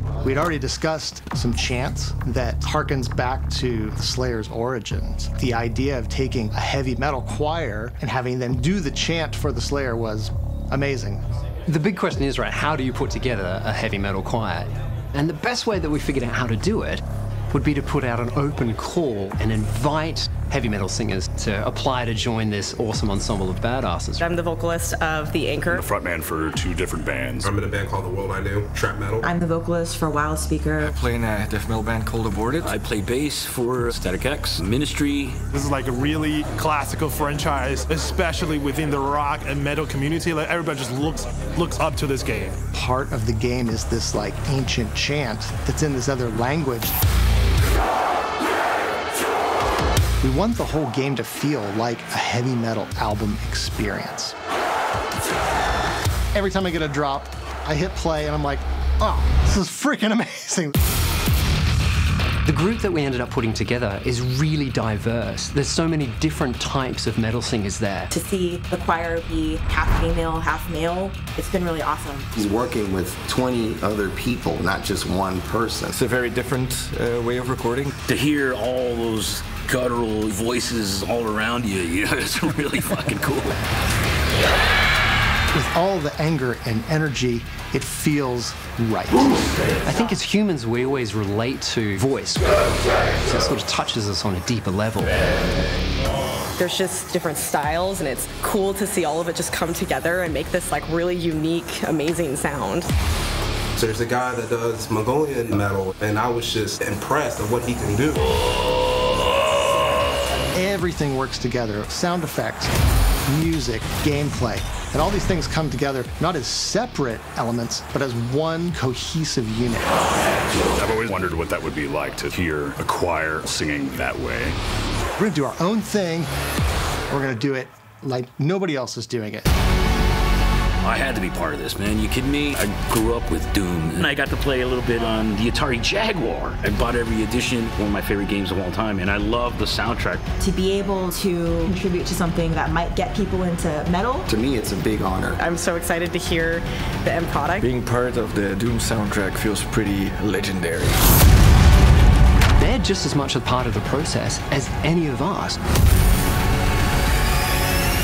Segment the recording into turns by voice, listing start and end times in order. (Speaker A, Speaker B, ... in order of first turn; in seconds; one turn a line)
Speaker A: 0.2-11.2
Speaker B: 11.7-24.2
Speaker C: 24.2-25.8
Speaker D: 25.7-27.5
Speaker E: 27.4-29.3
Speaker F: 29.4-30.9
Speaker G: 30.8-32.7
Speaker H: 32.6-35.4
Speaker I: 35.5-42.6
Speaker A: 42.7-47.0
Speaker A: 50.2-54.4
Speaker A: 56.4-60.8
Speaker B: 62.5-68.1
Speaker C: 68.1-72.3
Speaker J: 72.3-76.0
Speaker G: 75.9-77.9
Speaker H: 78.1-83.5
Speaker A: 85.5-89.3
Speaker B: 89.8-95.2
Speaker C: 96.6-102.9
Speaker E: 103.8-108.2
Speaker A: 110.5-112.8
Speaker A: 113.3-120.0
Speaker D: 120.8-124.5
Speaker A: 125.2-126.3
Speaker A: 127.1-129.5
Speaker H: 130.8-140.2
Speaker F: 140.4-144.2
Speaker J: 144.3-145.4
Speaker C: 145.4-147.7
Speaker G: 147.6-151.0
Speaker B: 152.6-155.6